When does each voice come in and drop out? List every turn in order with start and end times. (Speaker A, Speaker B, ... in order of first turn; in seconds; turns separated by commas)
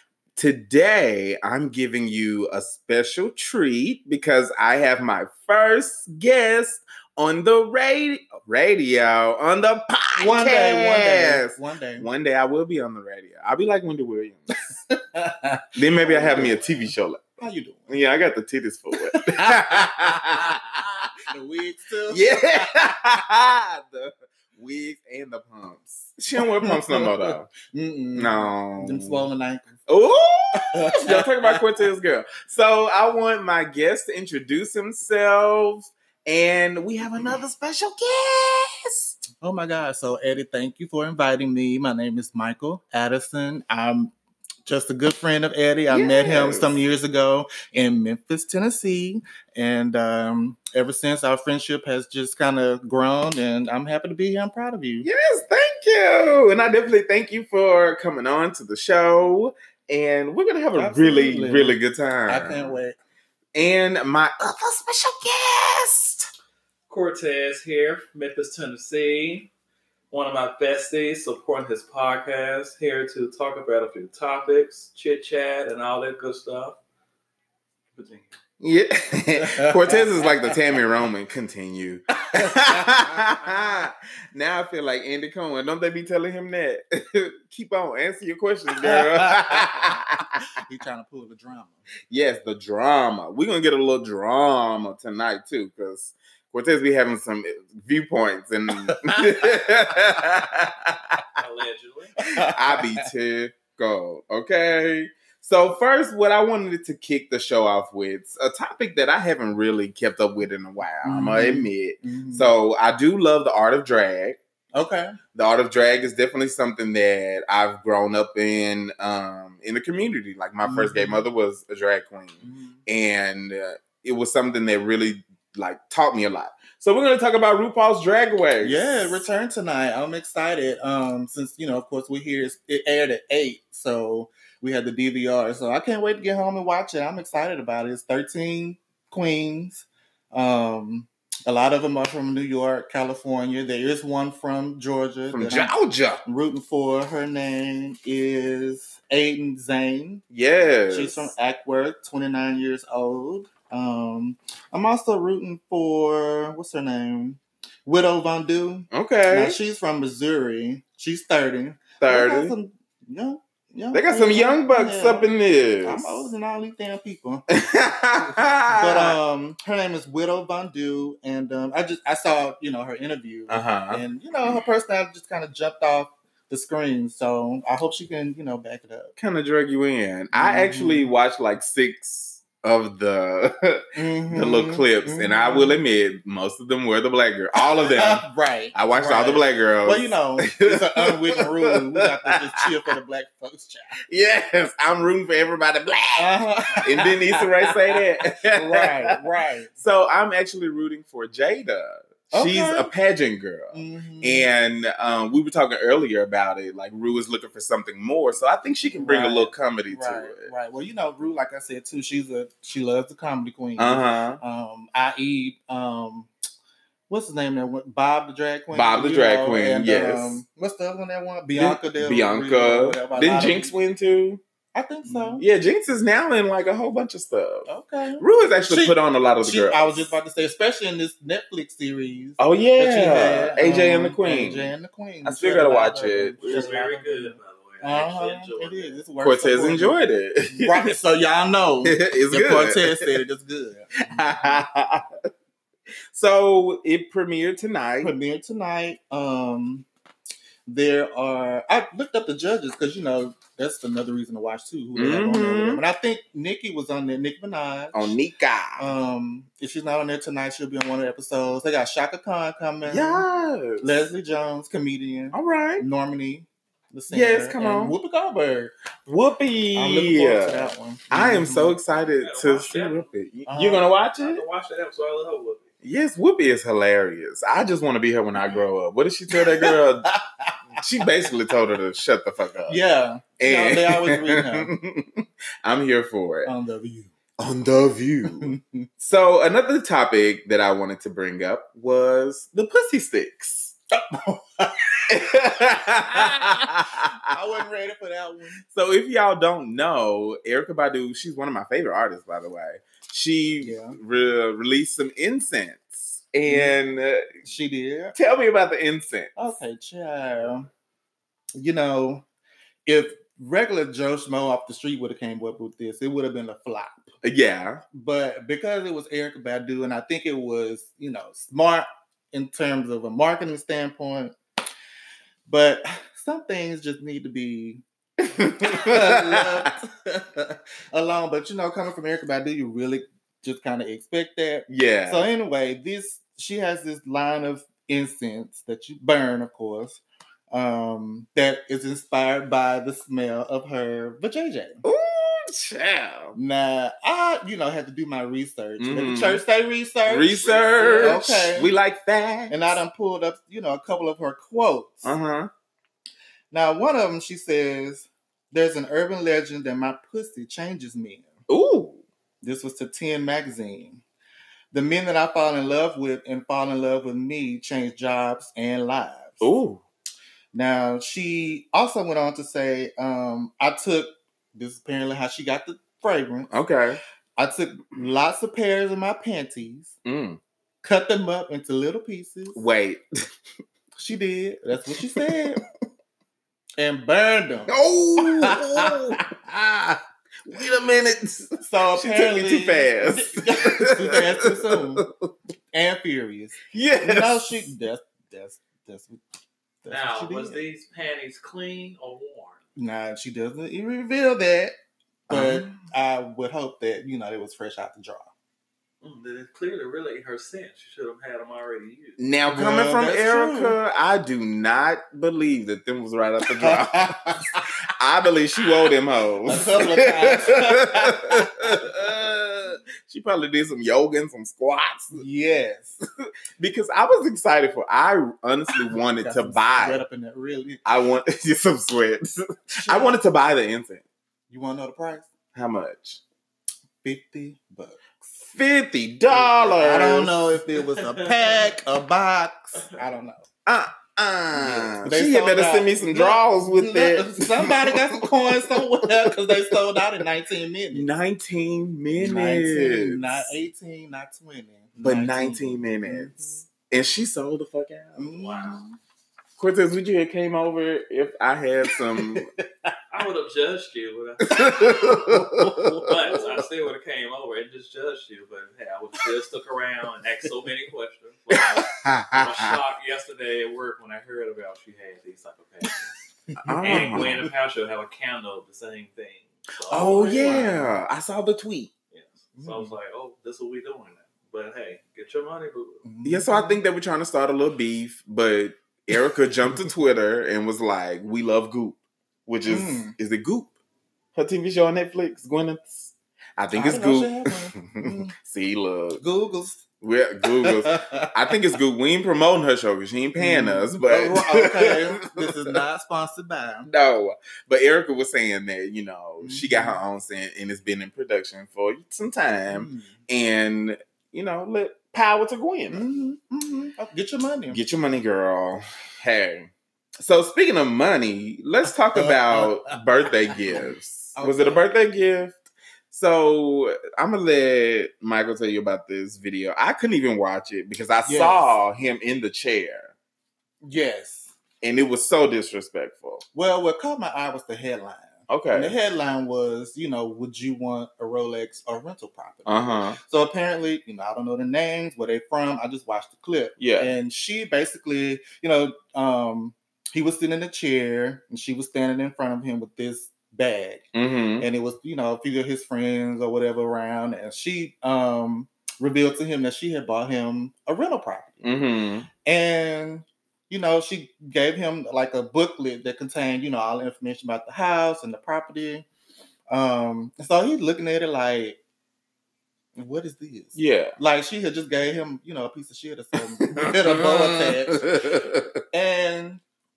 Speaker A: 0.4-14.7, Speaker B: 10.2-12.1, Speaker B: 14.6-17.9, Speaker A: 15.8-21.1, Speaker B: 19.0-20.6, Speaker B: 21.3-22.7, Speaker A: 22.1-27.5, Speaker B: 26.4-29.8, Speaker A: 28.2-29.2, Speaker A: 29.9-39.2, Speaker B: 30.5-31.6, Speaker B: 37.0-37.4, Speaker B: 39.3-44.1, Speaker B: 44.6-55.1, Speaker A: 45.9-46.7, Speaker A: 55.0-62.8, Speaker B: 60.7-63.0, Speaker A: 63.5-66.3, Speaker C: 66.9-69.5, Speaker C: 70.1-76.8, Speaker C: 77.9-78.3, Speaker A: 78.6-90.5, Speaker B: 79.4-80.6, Speaker B: 82.3-83.4, Speaker B: 88.8-89.7, Speaker B: 90.6-91.8, Speaker A: 92.1-101.4, Speaker B: 98.9-99.5, Speaker C: 101.4-102.2, Speaker B: 102.3-103.1, Speaker A: 102.4-114.4, Speaker B: 111.0-112.5, Speaker B: 114.7-115.2, Speaker A: 115.3-129.2, Speaker B: 120.6-121.3, Speaker B: 122.4-122.8, Speaker B: 128.6-145.7, Speaker A: 145.3-146.2, Speaker B: 146.2-150.2, Speaker A: 150.3-151.3, Speaker B: 150.9-167.4, Speaker A: 158.9-159.6, Speaker A: 162.0-162.5, Speaker A: 163.9-166.3, Speaker A: 167.5-169.2, Speaker B: 168.2-179.1, Speaker A: 173.5-174.6, Speaker A: 179.2-192.7, Speaker B: 180.3-181.1, Speaker B: 183.9-185.8, Speaker B: 187.8-194.0, Speaker A: 194.1-199.2, Speaker B: 196.2-197.5, Speaker B: 198.5-199.7, Speaker A: 199.8-210.5, Speaker B: 202.3-202.9, Speaker B: 203.7-204.5, Speaker B: 208.8-216.3, Speaker A: 213.8-214.4, Speaker B: 217.1-223.7, Speaker A: 218.7-220.4, Speaker A: 221.6-224.4, Speaker B: 224.7-225.4, Speaker A: 225.4-230.1, Speaker B: 227.7-240.0, Speaker A: 232.4-236.7, Speaker C: 236.4-239.0, Speaker A: 239.2-240.9, Speaker B: 240.5-244.6, Speaker A: 241.8-243.1, Speaker A: 244.1-245.1, Speaker A: 246.1-248.1, Speaker B: 248.0-249.9, Speaker B: 250.7-258.2, Speaker A: 255.0-255.8, Speaker A: 257.9-258.9, Speaker B: 258.8-263.2, Speaker A: 262.9-263.9, Speaker B: 263.8-268.7, Speaker A: 265.3-265.9, Speaker A: 267.1-267.9, Speaker A: 269.1-274.4, Speaker B: 269.8-271.8, Speaker C: 272.0-273.1, Speaker B: 273.5-273.9, Speaker C: 274.0-275.7, Speaker A: 275.8-280.1, Speaker B: 279.3-281.0, Speaker A: 280.8-282.8, Speaker B: 282.7-284.7, Speaker A: 283.4-286.5, Speaker B: 286.4-287.1, Speaker A: 287.4-293.8, Speaker B: 288.4-288.9, Speaker B: 293.9-295.3, Speaker A: 295.1-297.4, Speaker B: 295.9-298.6, Speaker A: 298.6-307.4, Speaker B: 303.6-304.0, Speaker B: 306.5-306.8, Speaker B: 307.4-308.1, Speaker A: 308.1-309.4, Speaker B: 309.4-310.7, Speaker B: 311.6-312.3, Speaker B: 312.9-317.1, Speaker A: 317.2-317.8, Speaker B: 317.9-324.4, Speaker B: 325.5-327.8, Speaker A: 328.3-329.7, Speaker B: 328.6-344.8, Speaker A: 334.7-335.3, Speaker A: 344.8-346.4, Speaker B: 346.3-351.7, Speaker A: 348.8-349.4, Speaker A: 350.1-352.8, Speaker C: 350.4-351.2, Speaker B: 352.5-355.1, Speaker A: 355.0-355.5, Speaker B: 356.5-361.3, Speaker A: 361.5-362.0, Speaker B: 362.4-364.0, Speaker B: 364.7-369.5, Speaker A: 369.4-369.8, Speaker B: 370.5-376.5, Speaker A: 376.5-377.0, Speaker B: 377.4-379.9, Speaker A: 380.1-380.4, Speaker B: 380.8-382.6, Speaker A: 382.5-383.0, Speaker B: 384.0-385.6, Speaker A: 385.1-385.4, Speaker B: 386.8-389.2, Speaker A: 387.7-395.1, Speaker B: 391.6-395.1, Speaker B: 395.7-399.2, Speaker A: 396.7-397.7, Speaker B: 399.8-400.6, Speaker C: 399.9-402.6, Speaker B: 402.8-404.7, Speaker A: 405.3-405.8, Speaker B: 405.3-408.3, Speaker C: 409.0-412.2, Speaker A: 412.2-425.2, Speaker B: 412.5-413.8, Speaker B: 416.5-417.7, Speaker B: 419.5-421.9, Speaker B: 425.1-426.0, Speaker A: 426.6-430.0, Speaker B: 428.9-430.8, Speaker A: 430.8-434.0, Speaker B: 432.7-433.2, Speaker B: 434.5-435.3, Speaker A: 435.5-436.2, Speaker B: 437.0-438.1, Speaker A: 438.5-440.4, Speaker B: 439.3-443.5, Speaker C: 440.8-441.7, Speaker A: 443.7-450.0, Speaker B: 444.5-451.1, Speaker A: 450.9-453.6, Speaker B: 452.2-456.6, Speaker A: 455.0-458.6, Speaker B: 458.2-459.0, Speaker C: 458.4-458.8, Speaker A: 459.6-462.5, Speaker B: 461.8-462.9, Speaker C: 463.1-465.3, Speaker A: 464.4-466.2, Speaker B: 465.3-466.6, Speaker C: 465.9-476.2, Speaker B: 471.5-472.7, Speaker B: 475.8-477.5, Speaker A: 476.6-477.4, Speaker C: 476.8-480.7, Speaker A: 479.9-481.9, Speaker B: 480.0-481.0, Speaker C: 482.1-486.1, Speaker B: 482.6-483.0, Speaker B: 486.1-486.8, Speaker A: 486.2-493.7, Speaker B: 489.7-490.0, Speaker B: 492.7-493.1, Speaker A: 494.4-499.2, Speaker B: 496.7-498.3, Speaker B: 499.2-499.9, Speaker A: 500.0-505.5, Speaker B: 500.6-501.3, Speaker B: 503.4-506.9, Speaker A: 506.9-516.0, Speaker B: 509.4-510.0, Speaker B: 512.7-513.1, Speaker B: 515.9-517.8, Speaker A: 517.7-533.1, Speaker B: 522.1-523.0, Speaker B: 523.5-524.8, Speaker B: 531.3-531.7, Speaker B: 533.8-534.6, Speaker A: 534.8-536.5, Speaker B: 536.5-554.1, Speaker A: 538.5-539.0, Speaker A: 542.6-543.2, Speaker A: 546.8-547.1, Speaker A: 554.1-554.7, Speaker B: 554.6-561.8, Speaker A: 561.6-562.3, Speaker B: 562.4-569.1, Speaker B: 569.7-571.8, Speaker B: 573.0-578.4, Speaker A: 573.8-574.2, Speaker A: 576.6-578.8, Speaker B: 578.9-579.6